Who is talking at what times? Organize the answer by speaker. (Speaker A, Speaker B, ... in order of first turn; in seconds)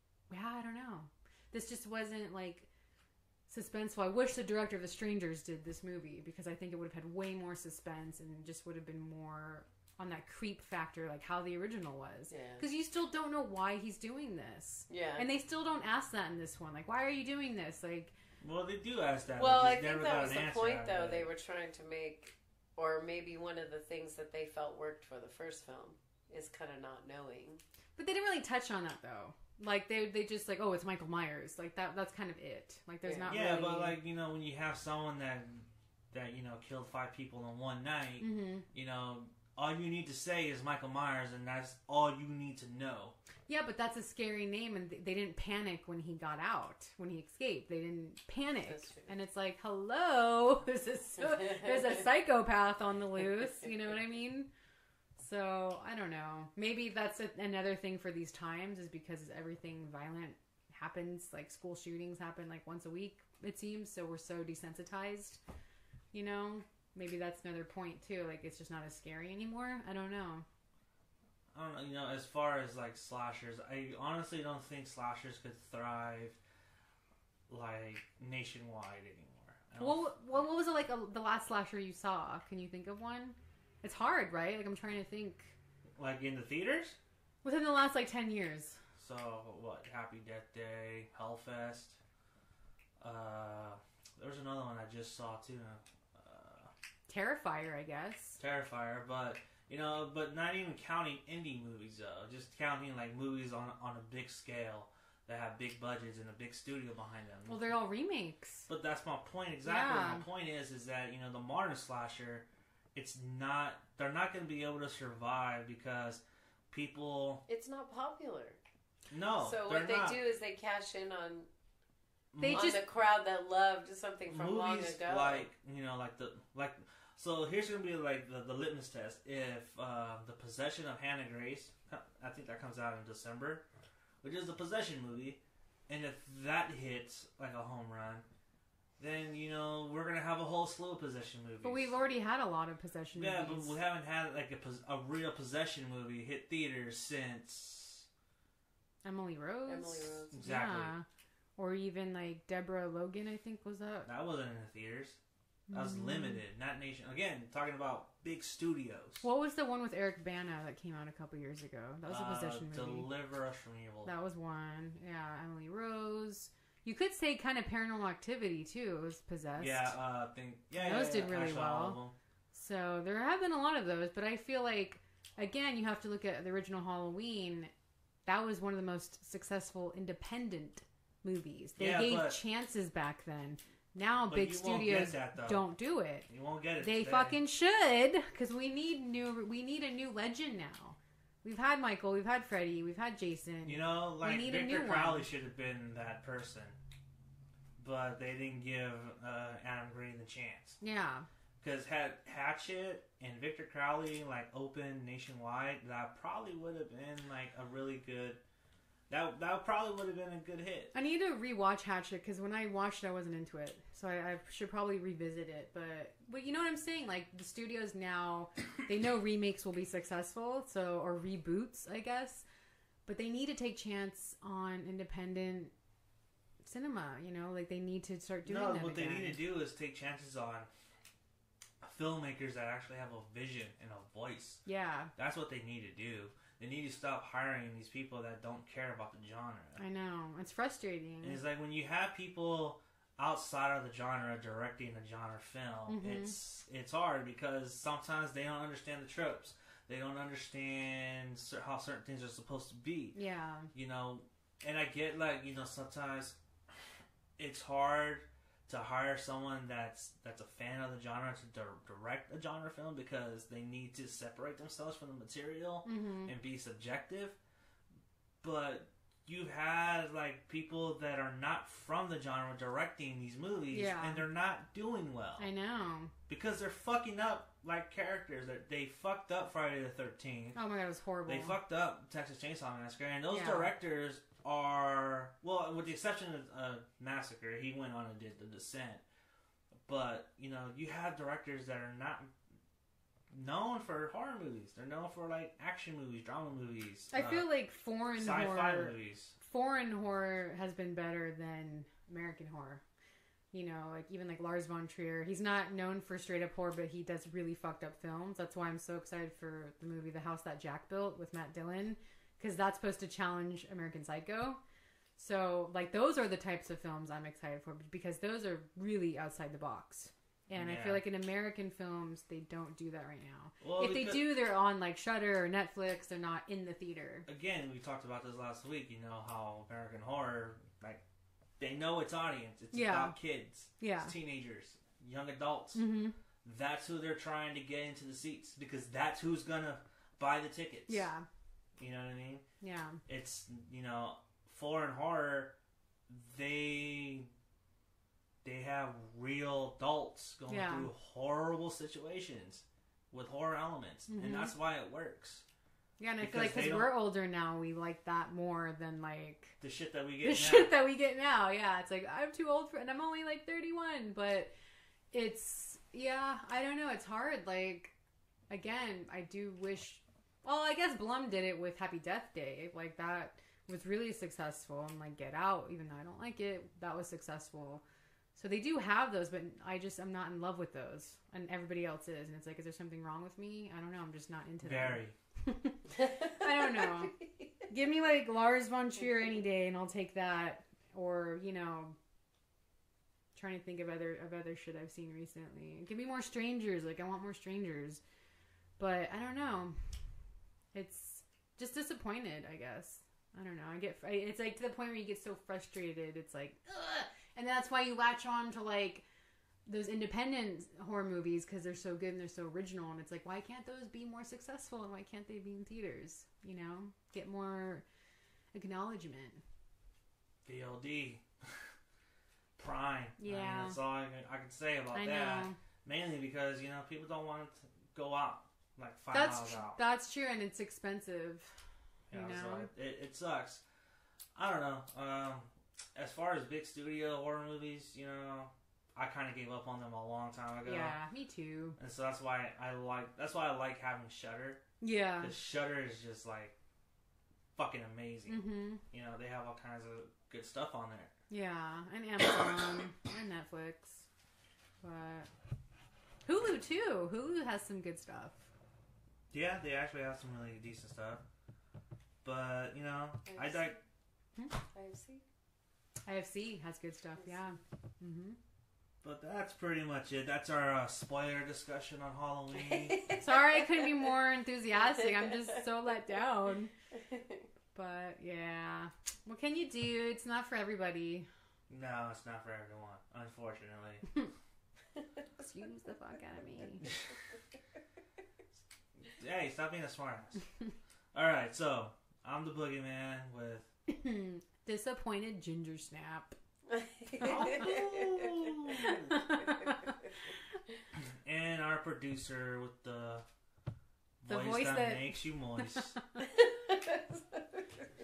Speaker A: 0.3-2.7, 3.5-18.1, 28.0-34.0, 38.2-38.7, 43.5-54.5, 55.2-65.4, 66.1-70.5, 79.8-85.5, 87.4-88.8, 97.1-98.4, 107.5-108.7, 109.6-110.2, 122.4-122.8, 141.6-143.8, 149.0-151.1, 151.6-154.1, 155.7-156.4, 159.2-163.1, 164.1-169.9, 170.7-172.0, 172.5-177.7, 178.3-186.3, 186.8-195.3, 200.8-201.3, 210.9-222.4, 223.1-225.7, 226.6-229.4, 234.7-235.1, 239.8-241.4, 245.9-246.4, 253.1-253.7, 265.9-266.3, 273.7-274.2, 275.4-276.1, 280.6-281.6, 283.3-283.7, 297.1-302.8, 303.5-314.6, 315.2-327.3, 332.7-333.2, 333.8-334.1, 335.7-336.2, 340.9-341.3, 342.6-343.0, 350.5-350.9, 354.1-354.5, 356.0-359.6, 360.2-364.5, 365.1-367.9, 368.5-377.8, 378.4-387.2, 387.7-391.9, 393.4-398.0, 398.8-399.7, 400.7-409.0, 409.7-417.9, 418.5-419.4, 423.2-423.8, 424.9-425.6, 429.1-431.6, 432.1-432.7, 440.6-441.8, 444.8-445.4, 448.3-448.8, 451.3-454.1, 454.8-455.3, 456.3-458.5, 466.1-468.4, 473.2-476.7, 477.7-481.3, 485.4-486.9, 493.9-496.4, 498.7-500.1, 504.3-506.3
Speaker B: 12.3-12.6, 14.9-15.3, 19.4-27.6, 33.0-33.6, 48.6-49.2, 51.2-52.0, 117.5-118.6, 119.4-121.5, 122.5-125.5, 149.7-150.3, 386.0-387.5, 463.3-463.8, 464.7-465.2, 472.6-474.1, 474.8-475.6, 476.9-477.5, 496.7-498.7, 506.2-507.9
Speaker C: 18.4-21.3, 33.3-43.1, 71.5-76.4, 77.5-80.5, 86.0-87.0, 89.0-92.0, 93.0-96.7, 98.4-107.8, 108.7-117.4, 119.1-120.2, 122.3-122.7, 124.3-133.6, 134.2-138.2, 139.0-141.9, 143.2-148.1, 150.3-150.9, 154.1-155.2, 155.7-159.2, 162.1-164.1, 169.6-172.1, 181.8-182.4, 184.3-185.7, 186.3-187.4, 193.6-196.8, 197.8-200.8, 201.6-208.4, 209.1-210.9, 228.4-230.7, 231.8-234.6, 235.2-239.8, 241.2-253.2, 253.7-267.4, 268.4-275.5, 276.3-280.6, 281.3-289.0, 289.9-292.3, 293.3-297.5, 298.2-299.4, 320.6-321.0, 323.6-324.3, 327.3-331.0, 331.6-335.9, 336.4-341.1, 341.8-342.4, 343.1-345.5, 346.1-347.3, 348.4-355.4, 356.2-356.9, 359.6-360.7, 384.6-385.1, 420.4-421.7, 422.6-429.8, 432.1-433.6, 434.4-441.0, 441.8-444.6, 445.2-446.6, 447.6-451.1, 459.3-461.2, 462.2-463.7, 469.0-473.0, 481.7-484.1, 489.0-490.4, 491.1-493.7, 497.2-499.3, 500.9-503.3, 504.2-506.0